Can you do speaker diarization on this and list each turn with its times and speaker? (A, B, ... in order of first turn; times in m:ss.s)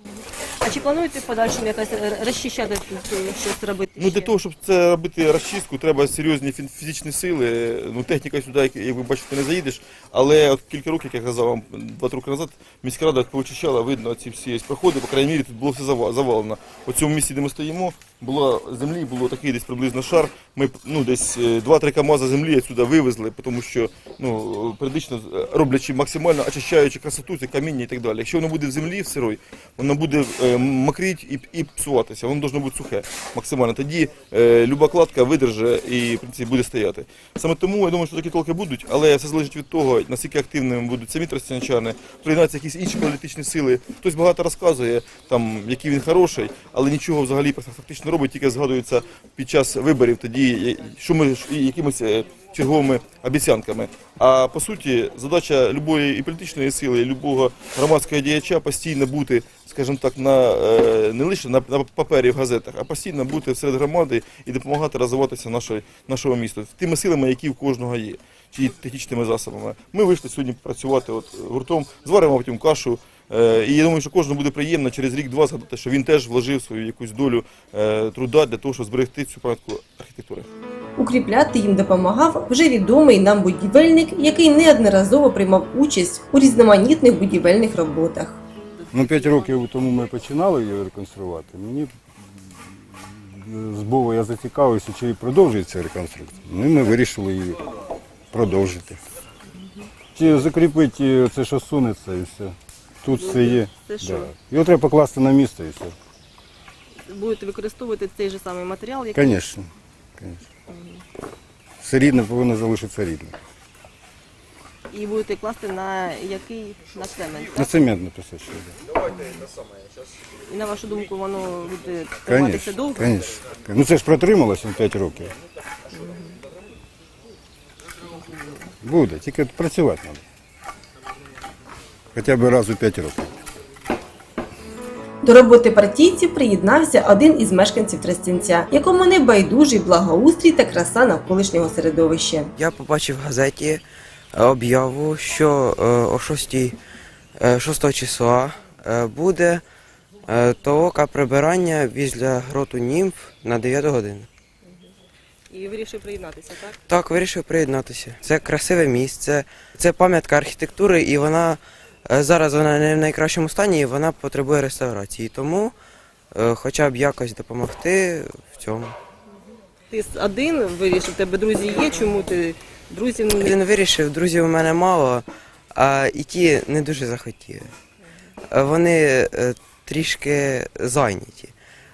0:00.6-0:04.3 A
0:04.0-1:20.5 B
1:21.0-1:28.4 C
1:28.8-1:29.4 A
1:28.9-1:31.9 D
1:33.1-1:37.6 D
1:38.3-1:39.0 D
1:40.1-1:45.9 D
1:43.1-1:44.3 A
1:47.0-1:49.3 A
1:49.1-1:50.4 D
1:50.7-1:51.0 A
1:51.8-1:53.4 D
1:54.9-1:57.7 A
1:57.5-1:58.8 D
1:59.1-1:59.5 A
2:00.4-2:03.1 A
2:02.2-2:05.3 D
2:05.9-2:06.3 A
2:08.8-2:10.2 D
2:12.1-2:13.3 D
2:15.2-2:22.5 C
2:22.6-2:26.8 E
2:27.4-2:29.6 E
2:30.3-2:34.3 E
2:35.5-2:36.8 A
2:36.9-2:45.7 E
2:46.3-2:49.0 E
2:49.9-2:53.5 A
2:53.4-2:57.7 E
2:58.5-3:01.5 E